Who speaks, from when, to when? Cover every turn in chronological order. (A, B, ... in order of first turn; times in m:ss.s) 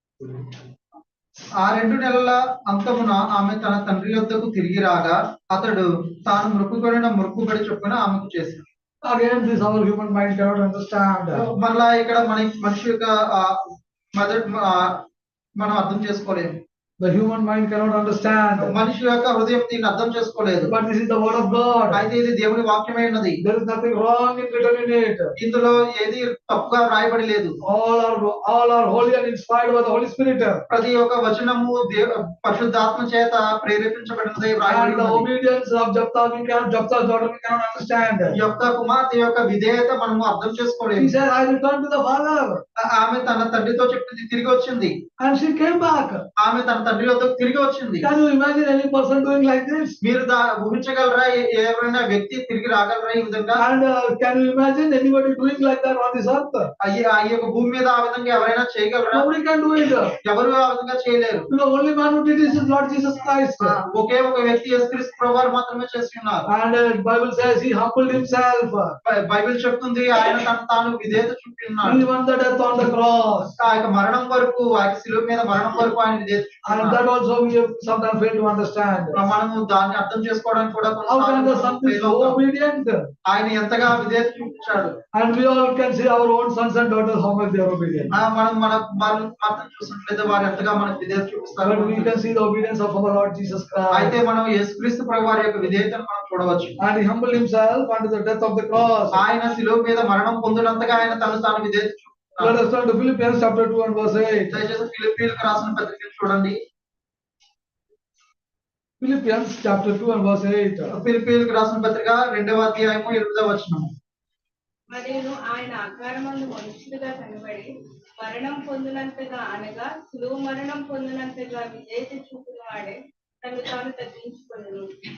0:01.6-0:08.7 A
0:09.0-0:11.4 B
0:11.3-0:15.0 A
0:15.6-0:16.6 A
0:17.0-0:18.7 B
0:18.6-0:20.7 A
0:20.7-0:22.0 B
0:21.9-0:23.4 A
0:23.4-0:25.3 B
0:25.4-0:27.6 A
0:27.6-0:30.6 B
0:30.7-0:35.3 A
0:34.6-0:38.4 B
0:38.3-0:41.1 A
0:41.0-0:42.6 B
0:42.8-0:44.9 A
0:45.2-0:46.2 B
0:46.4-0:48.1 A
0:48.0-0:50.0 B
0:50.0-0:53.6 A
0:53.6-0:56.7 B
0:56.8-0:59.3 A
0:59.1-1:00.1 B
1:00.2-1:01.5 A
1:01.5-1:03.8 B
1:03.6-1:06.5 A
1:06.5-1:09.0 B
1:09.0-1:12.0 A
1:11.8-1:13.5 B
1:13.6-1:17.0 A
1:16.6-1:19.2 B
1:19.1-1:22.4 A
1:21.1-1:23.1 B
1:23.2-1:25.0 A
1:25.1-1:28.1 B
1:28.1-1:32.2 A
1:31.6-1:34.2 B
1:33.9-1:36.8 A
1:36.8-1:39.2 B
1:39.1-1:42.6 A
1:42.4-1:44.6 B
1:44.5-1:46.6 A
1:49.0-1:50.9 B
1:50.9-1:53.9 A
1:54.9-2:04.9 C